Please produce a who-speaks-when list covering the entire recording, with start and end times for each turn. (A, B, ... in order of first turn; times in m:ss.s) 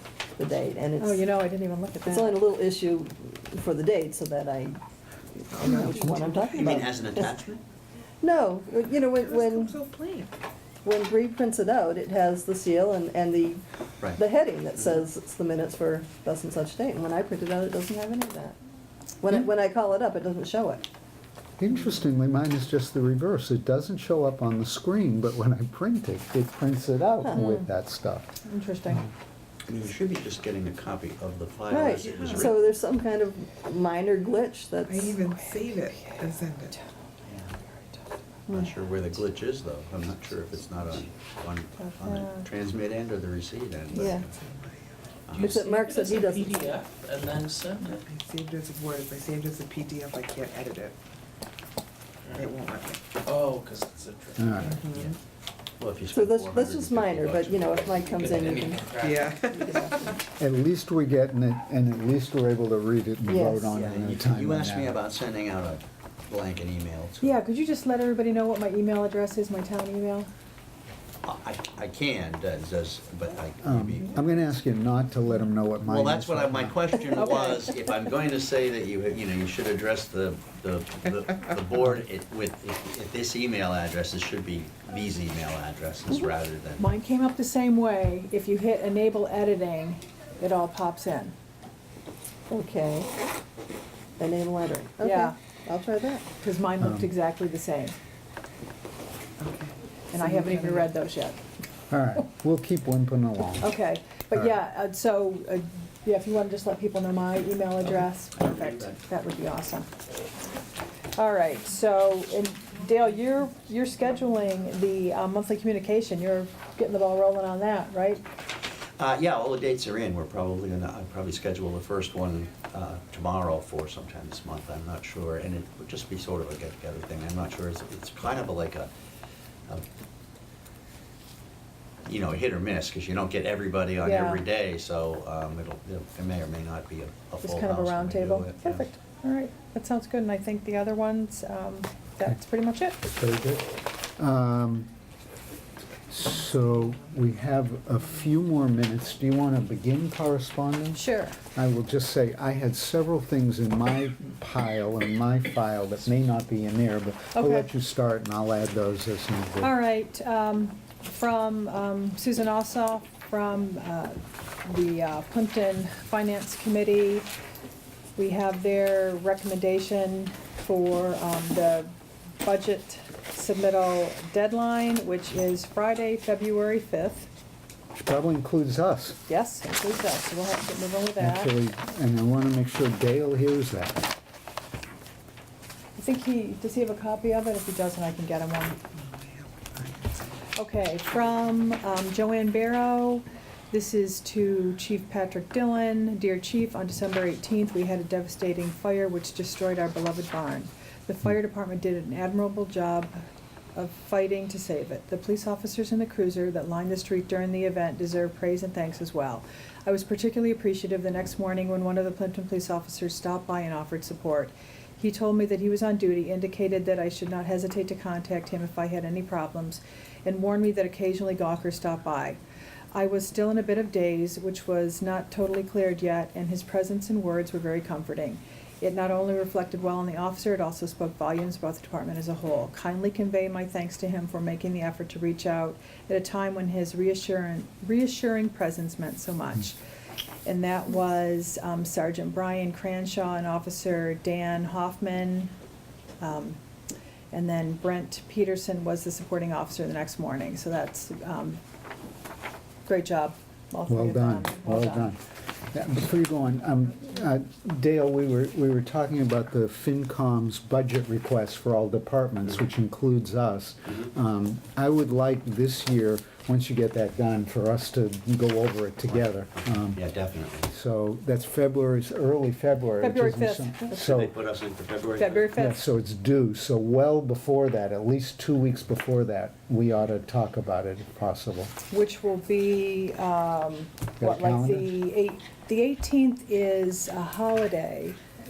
0:00.4-0:01.2 A
0:01.0-0:02.4 B
0:02.0-0:04.8 A
0:05.5-0:07.4 A
0:05.5-0:06.8 C
0:06.5-0:07.6 D
0:08.2-0:09.8 A
0:09.1-0:10.3 C
0:10.8-0:13.6 A
0:14.1-0:18.6 A
0:19.2-0:20.8 A
0:21.6-0:28.3 E
0:27.3-0:27.7 B
0:28.4-0:29.1 B
0:29.7-0:32.6 D
0:31.7-0:35.2 A
0:31.9-0:32.5 C
0:34.9-0:36.7 C
0:35.2-0:36.9 B
0:37.3-0:37.6 D
0:37.5-0:38.7 B
0:38.5-0:44.3 D
0:41.8-0:42.5 B
0:43.9-0:44.2 A
0:43.9-0:45.3 C
0:45.3-0:45.6 D
0:45.3-0:48.0 F
0:45.4-0:46.7 A
0:47.9-0:51.0 C
0:52.3-0:53.2 C
0:53.2-0:54.7 F
0:54.4-0:54.8 E
0:54.6-0:55.1 C
0:54.8-0:55.2 D
0:55.8-0:58.5 D
0:56.1-0:58.9 A
0:58.1-0:59.4 F
0:58.9-1:00.2 C
0:59.4-1:00.2 A
1:00.4-1:05.0 E
1:03.2-1:03.7 A
1:03.7-1:07.4 D
1:07.2-1:10.3 B
1:11.2-1:14.2 D
1:13.6-1:16.8 E
1:15.8-1:26.9 D
1:17.1-1:17.7 B
1:26.8-1:31.3 B
1:32.5-1:33.1 A
1:34.2-1:36.2 A
1:35.0-1:35.3 B
1:36.4-1:38.0 B
1:36.8-1:37.1 E
1:39.4-1:40.9 C
1:40.1-1:41.4 B
1:41.9-1:43.7 E
1:43.6-1:49.9 B
1:48.4-1:48.9 D
1:51.2-1:58.2 B
1:59.0-2:08.9 D
2:12.0-2:18.9 D
2:14.0-2:14.4 B
2:17.4-2:23.0 B
2:23.1-2:24.9 E
2:26.1-2:39.7 E
2:30.9-2:31.4 B
2:37.3-2:37.7 B
2:39.6-2:47.3 B
2:48.2-2:51.9 B
2:52.4-2:57.3 B
2:57.9-2:59.2 E
2:59.3-3:01.5 B
3:01.2-3:04.0 E
3:06.0-3:08.8 B
3:08.9-3:10.4 C
3:10.6-3:23.1 B
3:23.7-3:42.4 B
3:42.9-3:59.8 B
4:00.4-4:05.5 B
4:06.2-4:06.6 B
4:07.3-4:11.6 B
4:12.9-4:15.1 B
4:13.9-4:15.2 E
4:15.7-4:30.0 E
4:29.1-4:30.7 D
4:30.7-4:34.3 E
4:33.0-4:34.0 B
4:34.0-4:35.5 D
4:35.2-4:35.8 B
4:35.5-4:41.7 E
4:41.9-4:48.2 B
4:44.2-4:44.9 E